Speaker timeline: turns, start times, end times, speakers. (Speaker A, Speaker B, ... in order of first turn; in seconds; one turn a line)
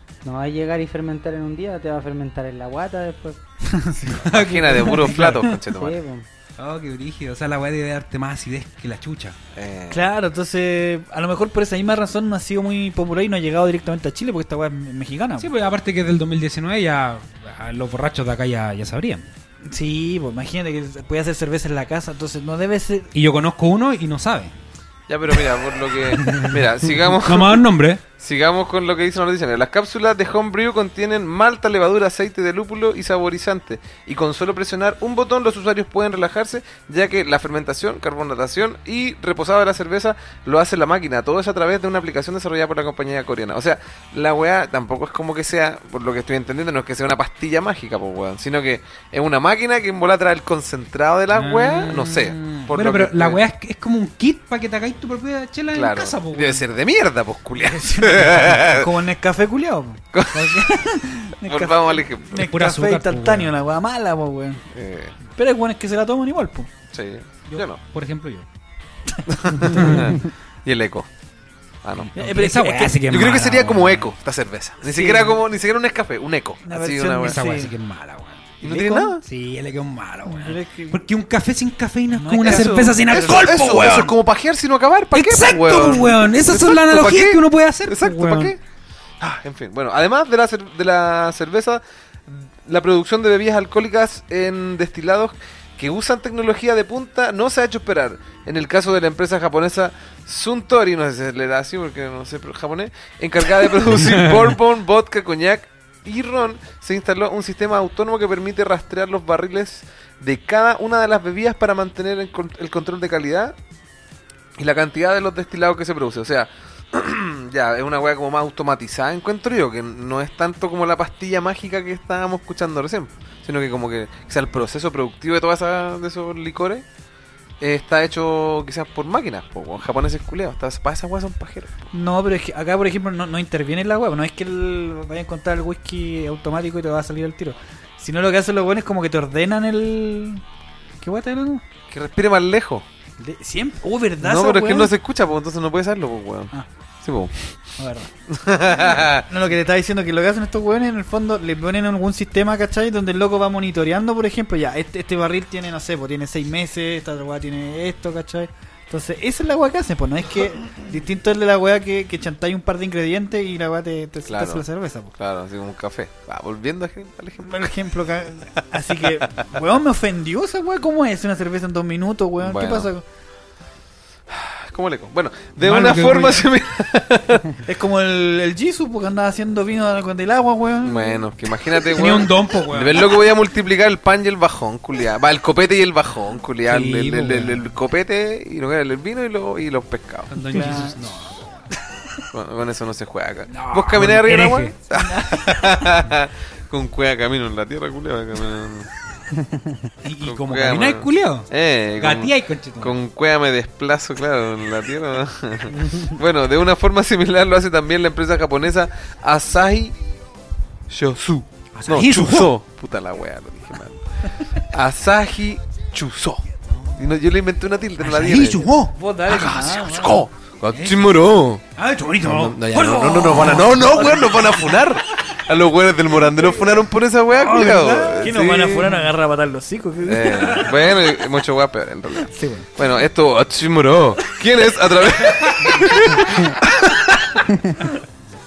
Speaker A: 0.2-3.4
Speaker B: 3.6-5.5
Speaker C: 4.1-6.0
Speaker A: 5.1-6.3
Speaker D: 6.6-9.4
Speaker C: 9.5-10.1
Speaker B: 9.9-15.5
Speaker D: 15.4-19.3
Speaker B: 19.6-23.1
Speaker D: 23.1-24.5
Speaker C: 25.1-27.6
Speaker D: 26.0-28.0
Speaker C: 28.2-53.4
Speaker D: 51.3-56.6
Speaker C: 55.7-58.9
Speaker B: 57.6-64.7
Speaker C: 60.1-60.7
Speaker C: 61.4-62.5
Speaker D: 62.4-63.5
Speaker C: 64.7-65.2
Speaker B: 65.3-66.7
Speaker C: 66.9-67.8
Speaker D: 67.5-68.5
Speaker B: 69.2-70.1
Speaker C: 69.3-71.1
Speaker D: 69.6-70.2
Speaker C: 71.8-72.1
Speaker B: 72.1-73.0
Speaker D: 72.2-74.1
Speaker C: 73.1-77.4
Speaker B: 74.8-75.4
Speaker B: 76.6-77.7
Speaker D: 77.2-78.6
Speaker C: 78.6-79.2
Speaker B: 78.6-79.2
Speaker D: 79.2-84.1
Speaker B: 80.2-81.0
Speaker B: 82.1-83.5
Speaker C: 82.4-88.6
Speaker D: 85.1-88.5
Speaker C: 89.2-113.5
Speaker D: 104.0-104.5
Speaker C: 114.6-126.8
Speaker C: 127.6-131.8
Speaker B: 131.9-140.4
Speaker B: 141.0-141.6
Speaker C: 141.9-142.8
Speaker B: 143.2-144.9
Speaker C: 144.2-147.3
Speaker B: 147.8-148.1
Speaker C: 148.3-149.2
Speaker B: 148.7-165.1
Speaker C: 164.2-167.7
Speaker B: 167.4-173.0
Speaker C: 169.2-169.4
Speaker C: 172.4-172.9
Speaker C: 174.3-177.5
Speaker D: 175.6-176.4
Speaker B: 177.6-181.2
Speaker C: 180.8-190.3
Speaker D: 181.8-183.2
Speaker D: 186.7-187.7
Speaker D: 190.3-191.5
Speaker B: 190.5-191.0
Speaker C: 192.3-198.9
Speaker D: 193.5-194.7
Speaker B: 194.9-195.4
Speaker A: 199.3-199.9
Speaker D: 200.0-203.0
Speaker C: 200.2-210.0
Speaker C: 210.9-218.7
Speaker D: 211.7-212.5
Speaker D: 218.0-218.9
Speaker B: 218.8-220.2
Speaker C: 219.3-221.6
Speaker D: 220.7-221.1
Speaker D: 221.7-223.7
Speaker C: 222.2-229.0
Speaker B: 222.7-224.8
Speaker B: 227.4-230.8
Speaker C: 230.0-237.5
Speaker B: 232.2-232.7
Speaker D: 235.4-235.7